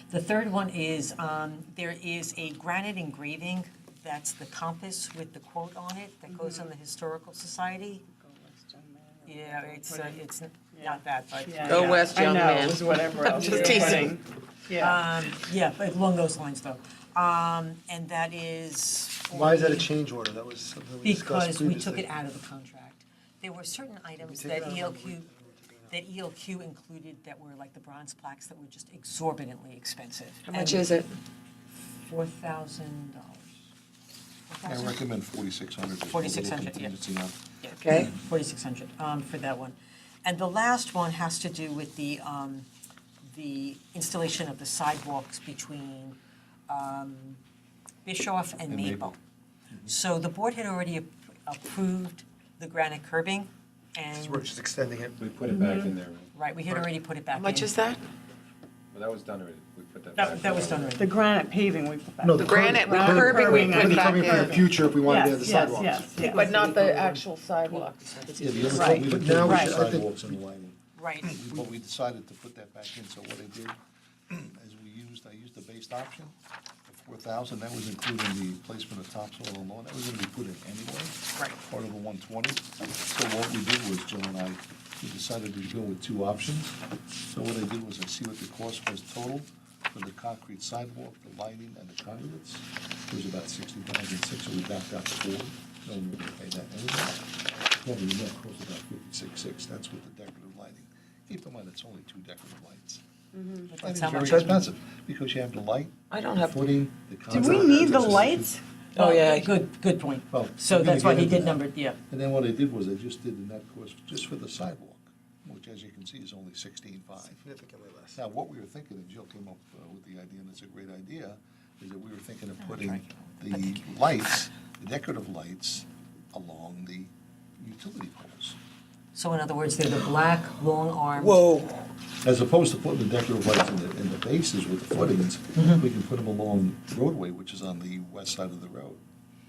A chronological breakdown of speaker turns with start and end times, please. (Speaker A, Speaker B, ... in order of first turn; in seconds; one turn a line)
Speaker A: 0.1-8.1
Speaker B: 6.3-6.7
Speaker B: 8.1-15.1
Speaker A: 9.3-12.1
Speaker C: 11.7-14.2
Speaker A: 13.3-14.1
Speaker D: 13.7-14.0
Speaker A: 14.7-19.9
Speaker D: 19.3-22.1
Speaker A: 21.0-25.3
Speaker D: 24.2-25.9
Speaker A: 25.9-31.0
Speaker C: 30.4-31.2
Speaker A: 32.1-33.5
Speaker A: 34.5-35.0
Speaker E: 34.6-37.4
Speaker A: 36.0-37.0
Speaker A: 37.6-42.7
Speaker C: 37.7-38.1
Speaker A: 43.3-46.2
Speaker A: 46.7-47.4
Speaker A: 48.0-49.2
Speaker E: 48.7-49.1
Speaker A: 49.9-54.5
Speaker D: 54.1-55.2
Speaker F: 55.2-56.9
Speaker B: 55.5-55.9
Speaker A: 56.3-57.8
Speaker C: 57.3-58.0
Speaker F: 58.9-61.0
Speaker A: 60.1-61.1
Speaker B: 61.0-66.5
Speaker D: 62.2-66.1
Speaker C: 62.3-68.4
Speaker A: 66.1-69.0
Speaker E: 68.4-73.8
Speaker B: 68.7-69.8
Speaker D: 68.9-70.4
Speaker A: 71.0-71.4
Speaker E: 74.3-76.3
Speaker E: 76.9-103.0
Speaker B: 103.3-103.7
Speaker A: 103.7-104.7
Speaker E: 103.8-108.6
Speaker C: 106.1-106.6
Speaker B: 107.3-108.6
Speaker C: 109.0-109.6
Speaker A: 109.0-112.0
Speaker E: 110.3-117.4
Speaker D: 117.2-118.2
Speaker E: 118.2-128.6
Speaker A: 122.6-124.0
Speaker A: 129.1-131.5
Speaker C: 131.2-131.9
Speaker E: 132.2-139.0
Speaker A: 135.6-135.8